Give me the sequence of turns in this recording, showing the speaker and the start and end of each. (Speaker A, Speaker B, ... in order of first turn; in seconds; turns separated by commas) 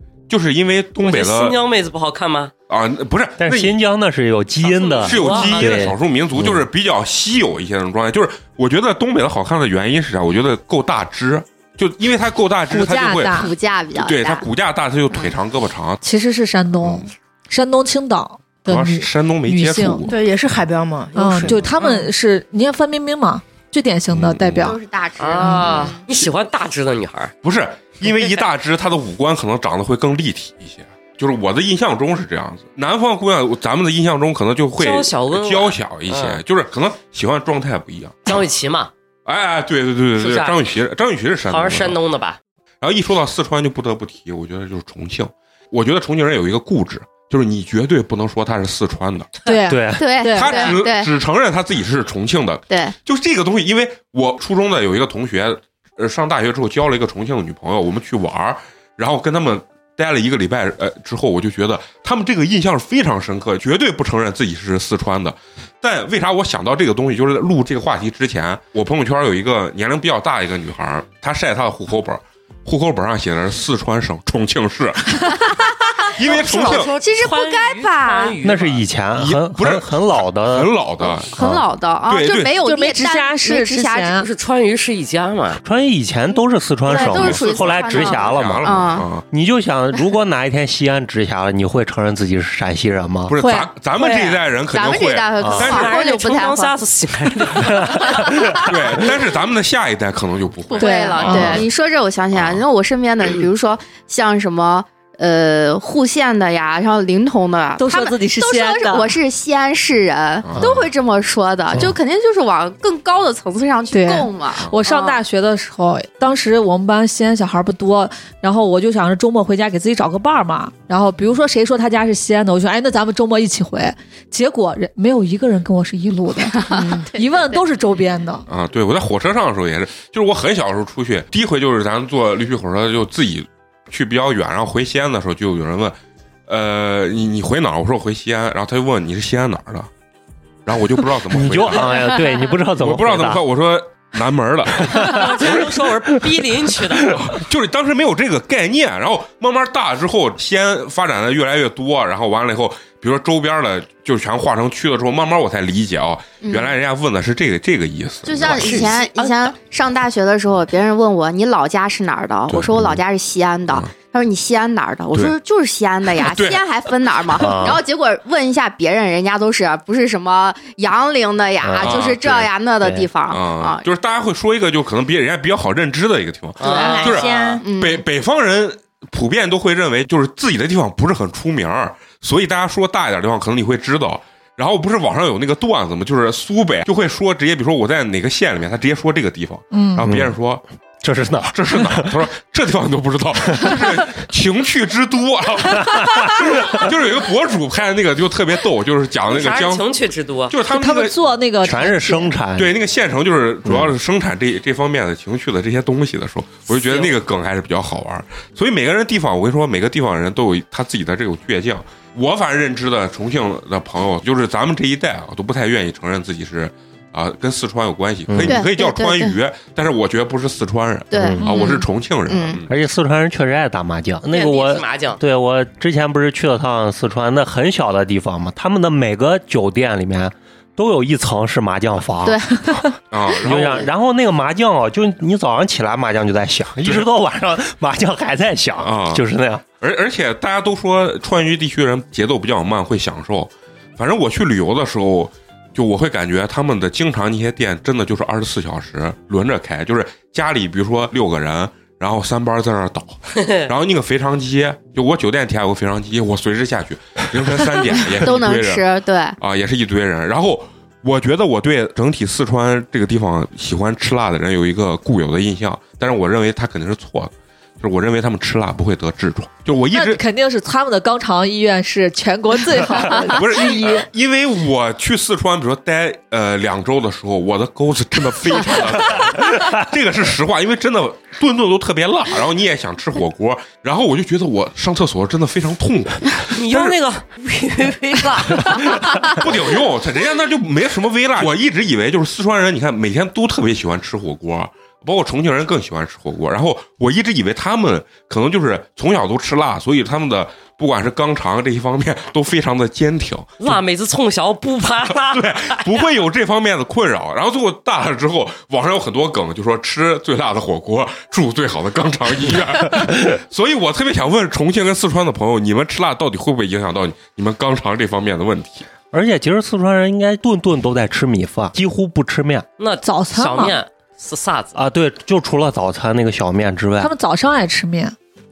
Speaker A: 0.3-1.6, Speaker B: 1.0-2.5, Speaker A: 2.7-3.8, Speaker C: 3.4-6.6, Speaker B: 4.6-5.9, Speaker A: 5.0-16.0, Speaker D: 12.7-13.5, Speaker E: 13.3-14.5, Speaker D: 16.0-20.1, Speaker A: 16.8-17.1, Speaker A: 18.6-20.1, Speaker F: 20.1-21.8, Speaker D: 21.1-24.8, Speaker A: 24.1-24.8, Speaker E: 24.6-26.0, Speaker B: 25.2-27.3, Speaker A: 27.4-38.2, Speaker B: 28.1-28.4, Speaker B: 34.8-36.4, Speaker B: 38.3-38.9, Speaker A: 39.2-42.0, Speaker B: 40.2-40.6, Speaker B: 41.5-42.4, Speaker A: 42.8-49.3, Speaker D: 49.5-50.8, Speaker C: 49.7-50.0, Speaker E: 50.0-51.1, Speaker A: 50.3-75.5, Speaker E: 52.7-53.0, Speaker A: 76.1-76.9, Speaker B: 76.2-78.8, Speaker E: 76.2-78.3, Speaker C: 78.4-80.7, Speaker A: 79.2-79.9, Speaker A: 80.5-81.4, Speaker E: 81.3-84.2, Speaker C: 81.4-81.7, Speaker A: 82.1-82.5, Speaker D: 82.6-84.3, Speaker B: 84.2-85.6, Speaker C: 85.6-93.3, Speaker E: 86.9-89.1, Speaker A: 87.0-89.2, Speaker A: 93.3-96.0, Speaker D: 93.4-93.7, Speaker B: 94.0-94.4, Speaker E: 94.7-96.7, Speaker C: 95.4-95.7, Speaker B: 95.6-98.7, Speaker E: 97.9-98.7, Speaker A: 98.6-101.7, Speaker E: 100.7-115.2, Speaker D: 100.8-101.6, Speaker A: 102.3-102.6, Speaker D: 107.8-109.2, Speaker A: 110.4-110.9, Speaker D: 113.9-128.5, Speaker E: 126.5-127.7, Speaker A: 128.5-136.0, Speaker A: 136.5-139.9, Speaker A: 140.7-142.2, Speaker C: 141.3-143.4, Speaker A: 142.7-145.7, Speaker C: 144.8-146.3, Speaker B: 145.0-147.3, Speaker A: 147.1-158.9, Speaker E: 156.4-156.7, Speaker E: 158.3-173.8, Speaker B: 158.4-159.5, Speaker A: 162.5-162.9, Speaker A: 166.2-166.7, Speaker C: 167.4-167.8, Speaker C: 171.6-172.1, Speaker A: 171.8-172.5, Speaker C: 172.8-173.1, Speaker A: 173.3-190.6, Speaker B: 176.6-177.5, Speaker F: 176.6-177.7, Speaker E: 176.7-178.0, Speaker D: 189.7-190.0, Speaker C: 190.0-190.4, Speaker C: 191.0-192.2, Speaker A: 191.5-199.8, Speaker C: 193.5-193.8, Speaker C: 195.8-196.8, Speaker B: 199.3-200.6, Speaker A: 200.5-201.2, Speaker D: 200.7-202.3, Speaker C: 201.6-202.7, Speaker A: 202.6-222.7, Speaker C: 203.7-203.9, Speaker B: 206.7-207.2, Speaker C: 218.3-218.6, Speaker E: 218.5-219.4, Speaker E: 221.1-222.6, Speaker C: 221.2-221.5, Speaker C: 222.7-232.9, Speaker B: 224.3-225.2, Speaker E: 232.2-232.8, Speaker A: 233.1-233.9, Speaker C: 233.4-239.6, Speaker A: 238.8-239.2, Speaker A: 239.8-258.9, Speaker B: 253.4-253.6, Speaker E: 258.2-259.4, Speaker A: 259.4-270.2, Speaker D: 269.9-274.1, Speaker A: 273.1-287.0, Speaker B: 286.5-289.4, Speaker A: 289.1-303.7, Speaker B: 303.6-306.1, Speaker A: 305.2-318.9, Speaker C: 319.1-322.7, Speaker B: 322.8-324.8, Speaker D: 323.0-323.8, Speaker C: 324.7-327.1, Speaker D: 327.0-328.2